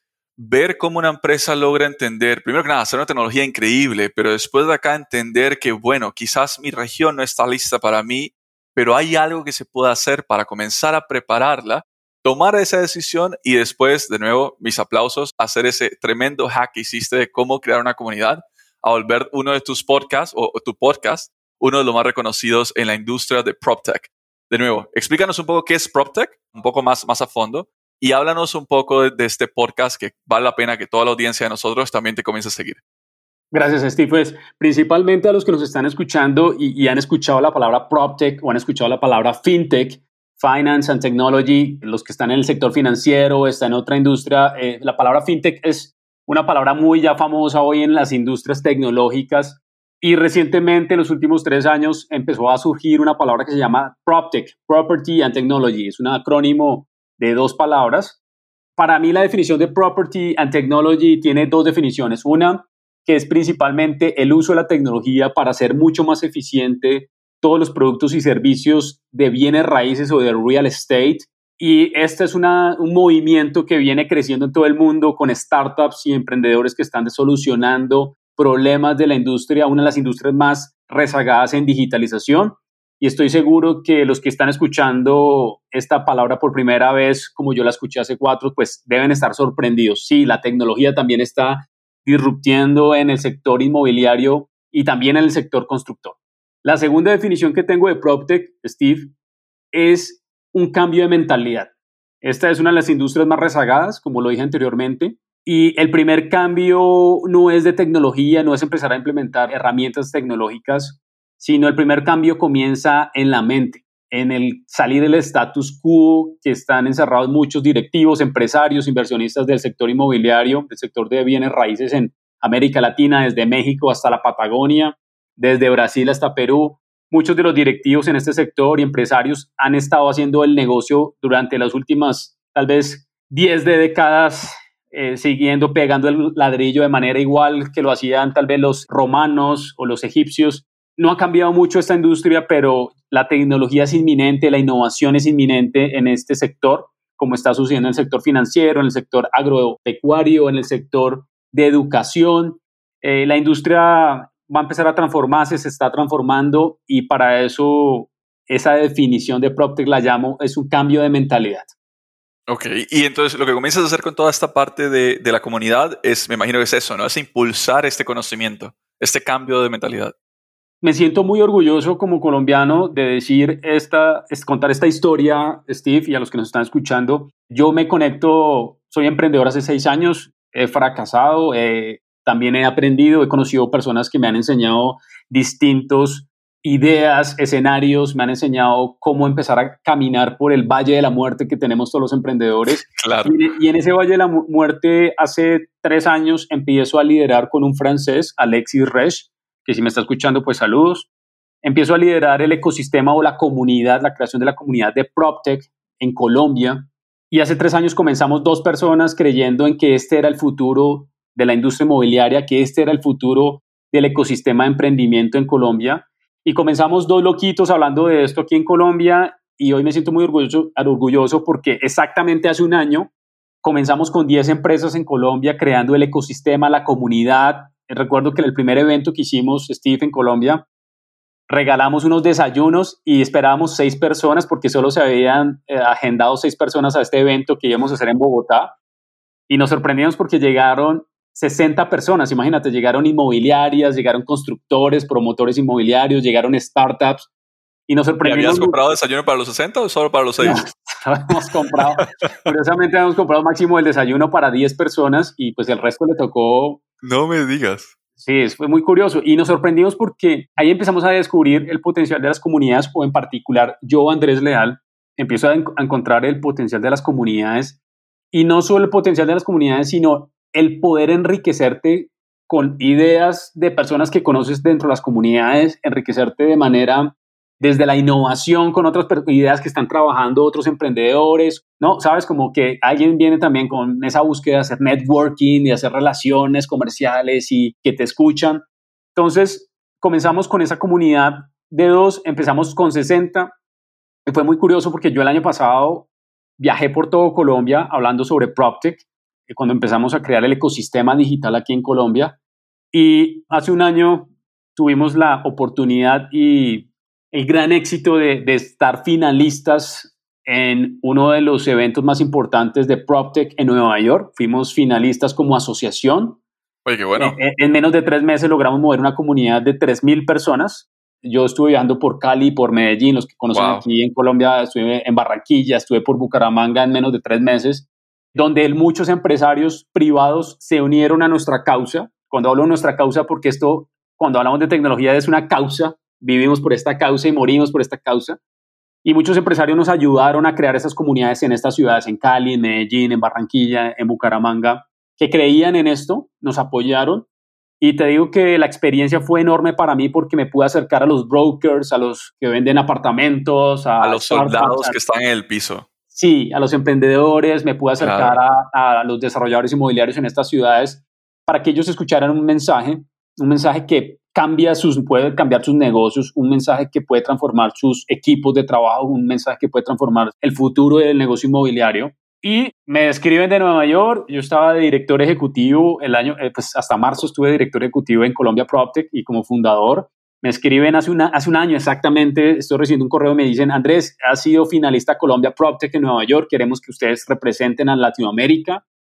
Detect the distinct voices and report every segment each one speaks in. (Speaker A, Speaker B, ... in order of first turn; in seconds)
Speaker A: 0.4-32.8, 162.5-170.1, 192.7-193.4, 248.2-250.6, 257.0-257.9, 316.8-317.4, 323.5-323.8, 354.0-355.9, 358.0-358.4
Speaker B: 33.5-58.2, 58.8-99.1, 99.7-101.7, 102.2-161.7, 170.8-201.1, 201.6-223.1, 223.6-230.7, 231.5-238.7, 239.5-247.3, 247.9-248.8, 250.4-256.8, 258.2-267.8, 268.3-288.6, 289.1-293.5, 294.3-296.1, 296.6-302.4, 302.9-316.4, 317.1-338.4, 339.0-347.3, 347.8-354.9, 356.1-388.8